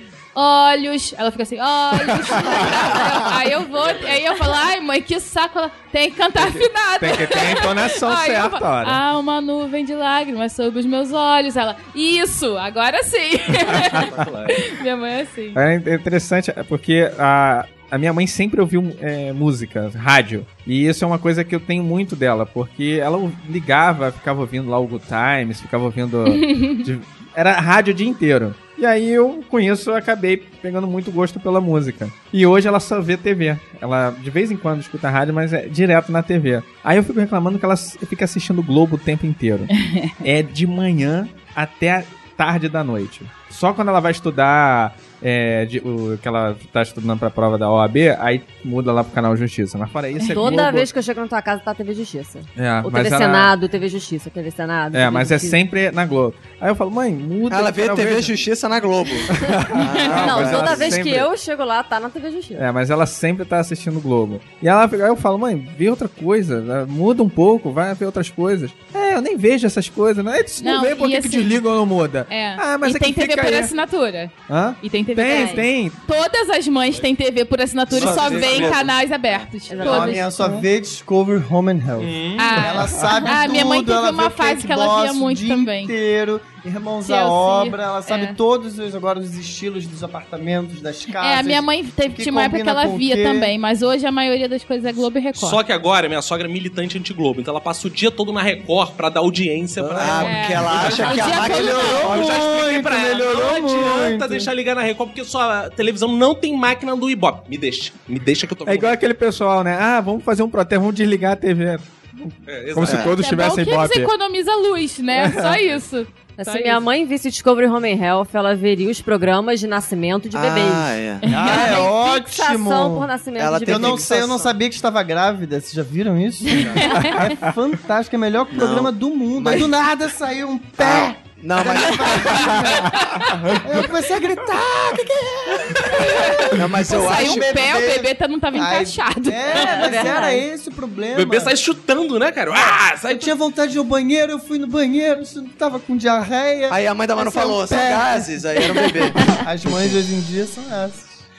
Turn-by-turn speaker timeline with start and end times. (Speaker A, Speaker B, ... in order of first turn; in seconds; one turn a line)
Speaker A: 0.3-15.6
Speaker B: 2.1-3.2
Speaker B: 6.4-9.0
Speaker C: 13.8-14.6
Speaker B: 15.5-39.7
Speaker A: 26.3-26.8
Speaker A: 39.8-40.1
Speaker B: 40.2-50.9
Speaker D: 50.2-55.6
Speaker B: 52.5-53.6
Speaker B: 54.9-58.3
Speaker E: 57.5-61.1
Speaker B: 59.3-61.3
Speaker D: 59.4-62.6
Speaker B: 62.5-73.7
Speaker A: 70.6-71.6
Speaker A: 72.3-80.5
Speaker B: 74.5-76.0
Speaker D: 75.2-75.7
Speaker C: 77.9-78.9
Speaker E: 77.9-78.9
Speaker D: 79.7-80.5
Speaker F: 79.8-93.5
Speaker C: 82.0-82.6
Speaker A: 82.4-85.9
Speaker A: 87.0-88.4
Speaker A: 91.2-95.6
Speaker C: 95.3-109.0
Speaker E: 99.8-102.4
Speaker A: 100.2-102.1
Speaker F: 101.6-104.5
Speaker B: 108.6-114.1
Speaker C: 112.5-113.0
Speaker E: 112.8-113.1
Speaker A: 113.1-116.8
Speaker B: 115.1-115.7
Speaker D: 116.4-124.3
Speaker E: 120.3-121.2
Speaker A: 121.3-121.8
Speaker F: 121.3-123.1
Speaker E: 123.3-124.5
Speaker F: 123.7-141.6
Speaker D: 126.5-126.8
Speaker A: 126.8-127.2
Speaker E: 128.5-129.7
Speaker E: 130.8-132.6
Speaker A: 135.9-140.2
Speaker E: 136.5-137.6
Speaker D: 139.5-140.4
Speaker C: 141.1-143.3
Speaker F: 142.6-151.2
Speaker E: 146.7-150.0